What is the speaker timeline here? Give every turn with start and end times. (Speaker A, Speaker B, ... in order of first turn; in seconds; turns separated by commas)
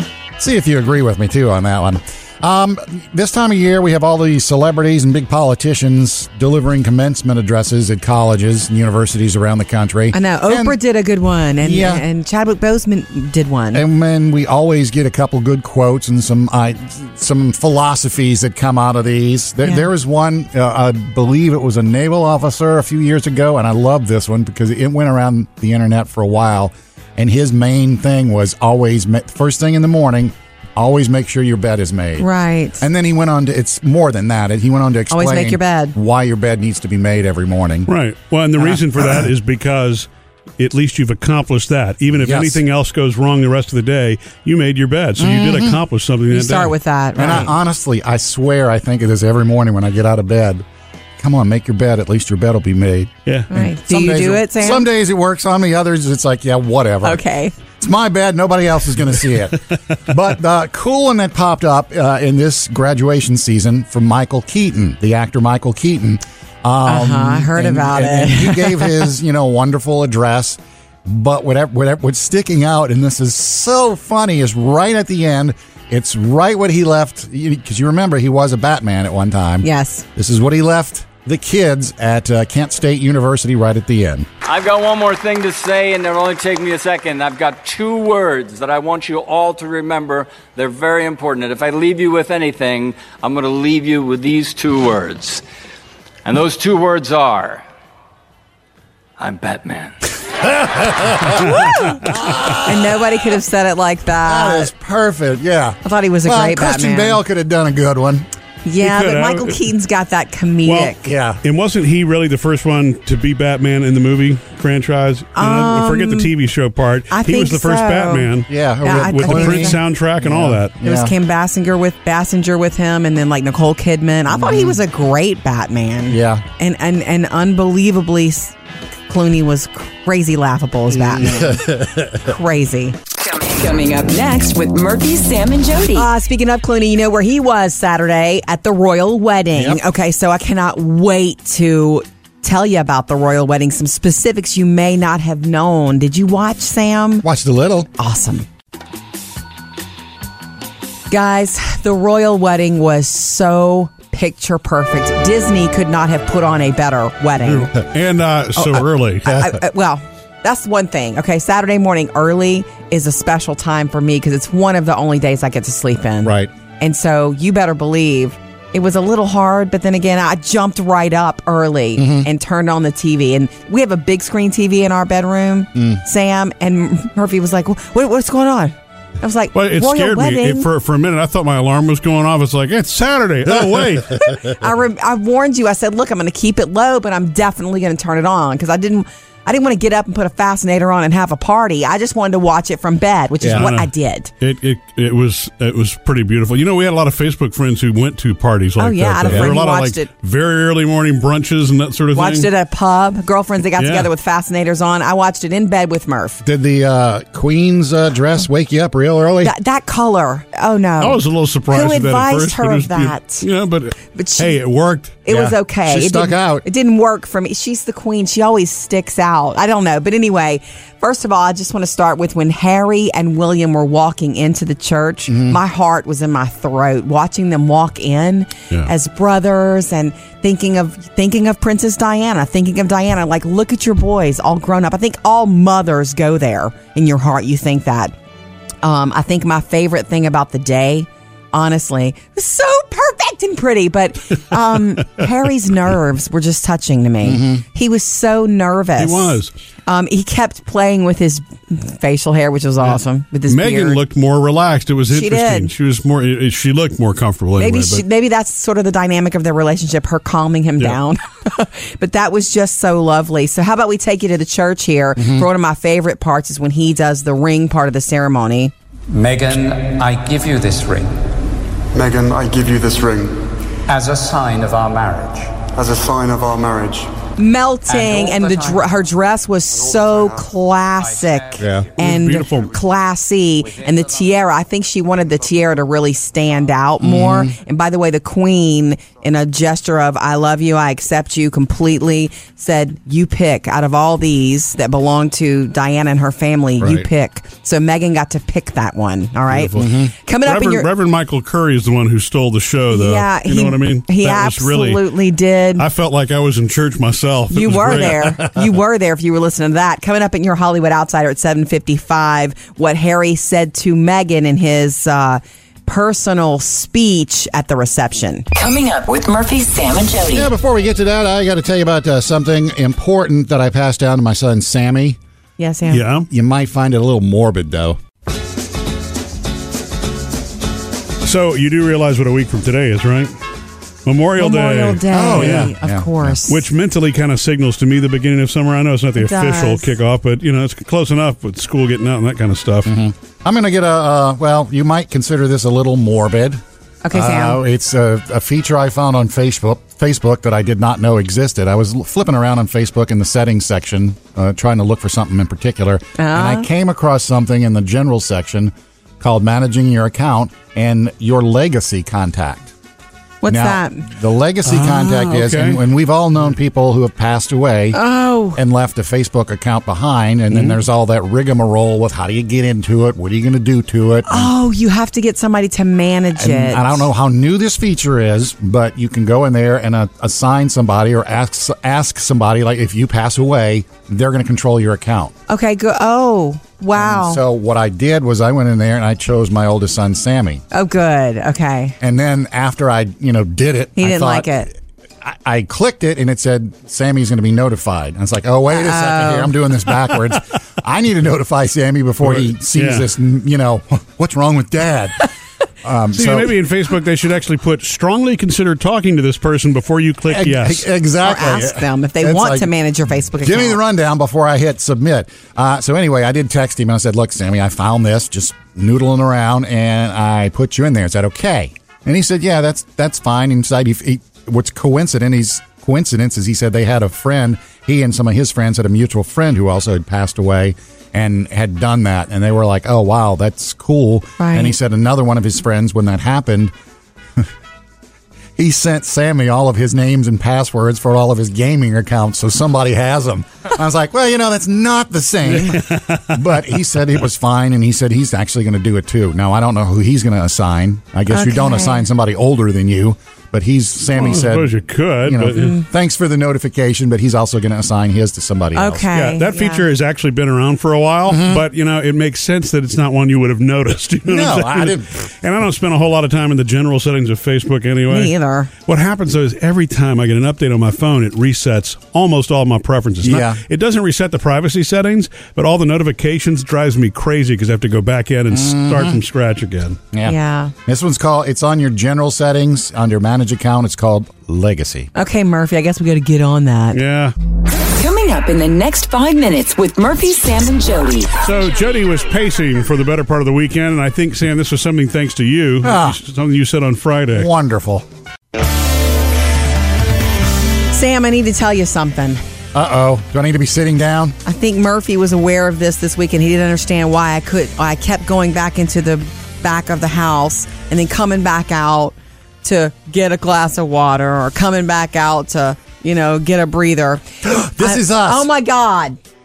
Speaker A: 0.4-10.8, Speaker B: 10.1-13.8, Speaker A: 11.6-12.0, Speaker A: 13.7-32.3, Speaker B: 32.2-32.9, Speaker A: 32.8-37.9, Speaker B: 35.1-36.0, Speaker C: 37.9-46.8, Speaker A: 42.2-42.6, Speaker A: 45.2-45.8, Speaker B: 46.3-47.5, Speaker A: 47.2-50.6, Speaker A: 51.2-57.2, Speaker B: 53.5-54.9, Speaker B: 57.0-57.5, Speaker A: 57.8-84.3, Speaker B: 66.9-69.1, Speaker B: 79.6-80.0, Speaker D: 84.4-95.4, Speaker D: 96.2-97.6, Speaker D: 99.2-100.0, Speaker A: 100.6-102.8, Speaker C: 101.5-101.9, Speaker B: 102.6-104.7, Speaker A: 104.2-108.3, Speaker B: 105.8-107.2, Speaker B: 108.7-111.0, Speaker C: 108.8-109.6, Speaker C: 110.7-120.8, Speaker A: 111.0-111.4, Speaker B: 115.3-116.3, Speaker B: 117.1-119.8, Speaker A: 118.5-121.1, Speaker B: 120.8-128.6, Speaker A: 124.3-124.8, Speaker A: 126.1-126.4, Speaker B: 129.1-133.0, Speaker A: 131.0-132.3, Speaker E: 133.1-136.1, Speaker B: 135.9-147.2, Speaker A: 139.6-139.8, Speaker A: 147.2-147.9, Speaker B: 148.0-148.5, Speaker B: 151.1-157.7, Speaker C: 157.4-159.3, Speaker B: 159.2-180.7, Speaker A: 159.3-159.6, Speaker A: 166.2-166.5, Speaker A: 172.0-172.3, Speaker A: 175.8-176.0, Speaker C: 179.5-184.3, Speaker B: 184.2-194.3, Speaker A: 193.4-193.7, Speaker C: 193.5-202.5, Speaker B: 198.8-200.1, Speaker B: 202.1-206.4, Speaker C: 203.8-204.1, Speaker A: 206.4-209.5, Speaker B: 209.4-213.5, Speaker C: 211.0-215.2, Speaker B: 214.1-214.6, Speaker B: 215.2-238.1, Speaker A: 215.3-216.7, Speaker A: 225.3-225.6, Speaker B: 238.8-254.0, Speaker A: 247.2-247.6, Speaker C: 249.0-249.5, Speaker C: 253.5-258.1, Speaker B: 255.1-255.7, Speaker B: 257.6-268.7, Speaker A: 265.2-265.5, Speaker F: 269.1-271.1, Speaker G: 271.9-273.4, Speaker F: 273.9-275.5, Speaker G: 275.7-277.1, Speaker B: 277.4-300.9, Speaker F: 277.9-278.7, Speaker A: 281.6-281.9, Speaker C: 282.0-282.7, Speaker A: 287.0-287.5, Speaker A: 296.8-297.1, Speaker C: 299.6-305.0, Speaker A: 299.8-300.1, Speaker B: 302.9-305.9, Speaker C: 305.8-308.5, Speaker B: 307.5-318.5, Speaker E: 318.5-320.5, Speaker A: 320.3-325.2, Speaker B: 325.6-326.1, Speaker C: 325.9-326.3, Speaker A: 326.3-328.0, Speaker C: 331.2-333.3, Speaker C: 334.1-335.7, Speaker B: 334.4-336.6, Speaker A: 335.1-336.4, Speaker C: 336.5-342.9, Speaker B: 339.2-339.9, Speaker A: 342.9-346.6, Speaker B: 347.0-347.6, Speaker A: 347.1-362.7, Speaker B: 356.2-356.7, Speaker B: 363.4-364.1, Speaker A: 363.5-368.0, Speaker C: 364.6-365.8, Speaker B: 367.9-368.6, Speaker A: 368.6-374.5, Speaker B: 374.3-377.1, Speaker A: 376.4-385.3, Speaker B: 385.5-387.4, Speaker A: 386.9-390.6, Speaker B: 390.7-392.0, Speaker A: 392.0-394.6, Speaker B: 394.0-394.7, Speaker A: 395.2-405.3, Speaker B: 398.7-399.5, Speaker C: 402.2-403.1, Speaker A: 405.8-406.6, Speaker C: 406.1-410.9, Speaker A: 410.3-412.7, Speaker B: 411.2-413.8, Speaker A: 413.4-436.7, Speaker B: 434.4-434.8, Speaker A: 438.6-454.7, Speaker C: 445.5-446.2, Speaker B: 451.3-452.1, Speaker C: 454.2-455.7, Speaker A: 455.2-459.1, Speaker B: 455.6-455.8, Speaker B: 458.7-459.9, Speaker C: 459.1-480.0, Speaker A: 461.3-461.6, Speaker A: 464.3-465.3, Speaker B: 468.1-468.7, Speaker A: 473.2-473.6, Speaker A: 478.5-479.2, Speaker A: 480.1-485.1, Speaker B: 480.2-480.7, Speaker B: 485.1-487.0, Speaker C: 486.9-487.3, Speaker E: 487.9-491.4, Speaker C: 491.4-497.5, Speaker A: 495.8-496.2, Speaker A: 497.3-498.1, Speaker B: 500.9-502.4, Speaker A: 502.7-504.4, Speaker B: 504.4-519.2, Speaker A: 517.4-518.5